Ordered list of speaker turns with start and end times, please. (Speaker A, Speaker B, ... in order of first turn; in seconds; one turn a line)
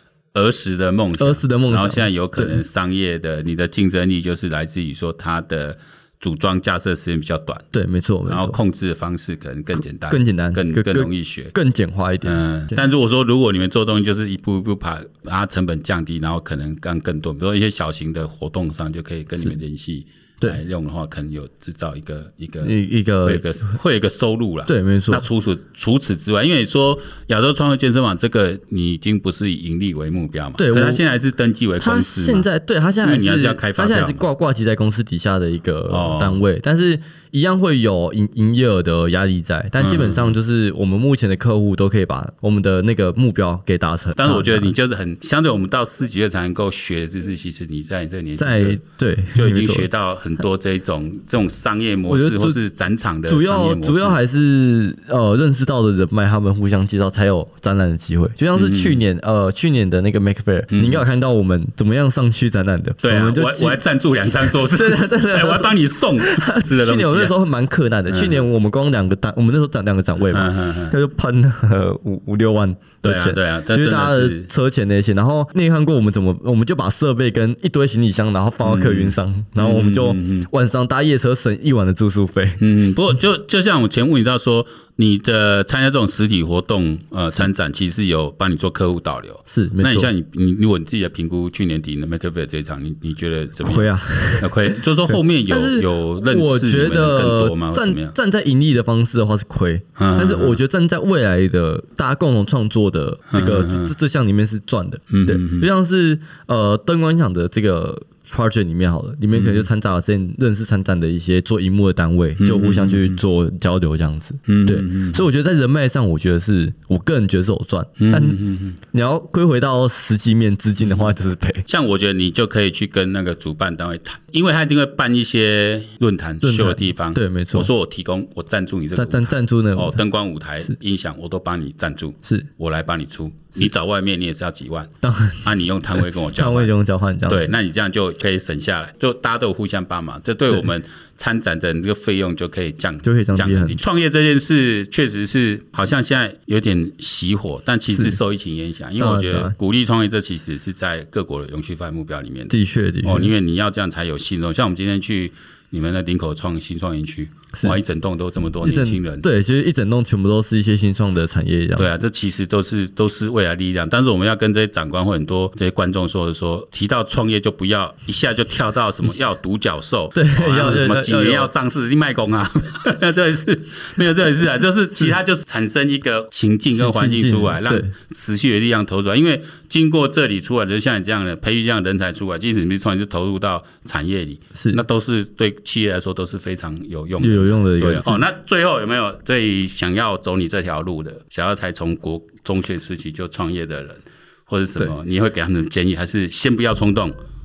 Speaker A: 0.3-7.7
Speaker B: 1.2-2.6
Speaker B: 7.7-8.6
Speaker A: 8.3-11.5
Speaker B: 9.8-12.8
Speaker A: 12.2-32.5
Speaker B: 22.6-23.8
Speaker B: 24.7-25.3
Speaker B: 30.6-31.0
Speaker B: 31.8-44.7
Speaker A: 33.0-34.2
Speaker A: 35.9-36.4
Speaker A: 39.8-40.4
Speaker A: 44.1-48.8
Speaker B: 48.4-49.9
Speaker A: 49.3-54.2
Speaker B: 52.1-52.6
Speaker B: 53.3-63.8
Speaker A: 58.5-59.0
Speaker A: 60.7-61.0
Speaker A: 63.0-67.4
Speaker B: 64.4-82.6
Speaker A: 68.1-68.5
Speaker A: 70.2-71.0
Speaker A: 73.0-74.5
Speaker A: 78.6-80.5
Speaker A: 82.6-98.1
Speaker B: 89.5-90.1
Speaker B: 93.6-121.6
Speaker A: 100.0-100.6
Speaker A: 103.3-103.9
Speaker A: 105.1-105.7
Speaker A: 109.3-109.7
Speaker A: 112.4-113.2
Speaker A: 114.5-115.2
Speaker A: 118.0-118.8
Speaker A: 120.8-121.1
Speaker A: 121.7-134.9
Speaker B: 126.4-127.7
Speaker B: 129.0-130.0
Speaker B: 135.0-137.5
Speaker A: 135.4-136.7
Speaker A: 137.3-159.2
Speaker B: 143.0-143.8
Speaker B: 147.9-148.2
Speaker B: 149.0-149.6
Speaker B: 152.5-153.3
Speaker B: 157.5-157.8
Speaker B: 158.6-161.9
Speaker A: 161.8-197.1
Speaker B: 170.1-171.5
Speaker B: 176.7-177.9
Speaker B: 184.6-184.8
Speaker B: 187.2-188.2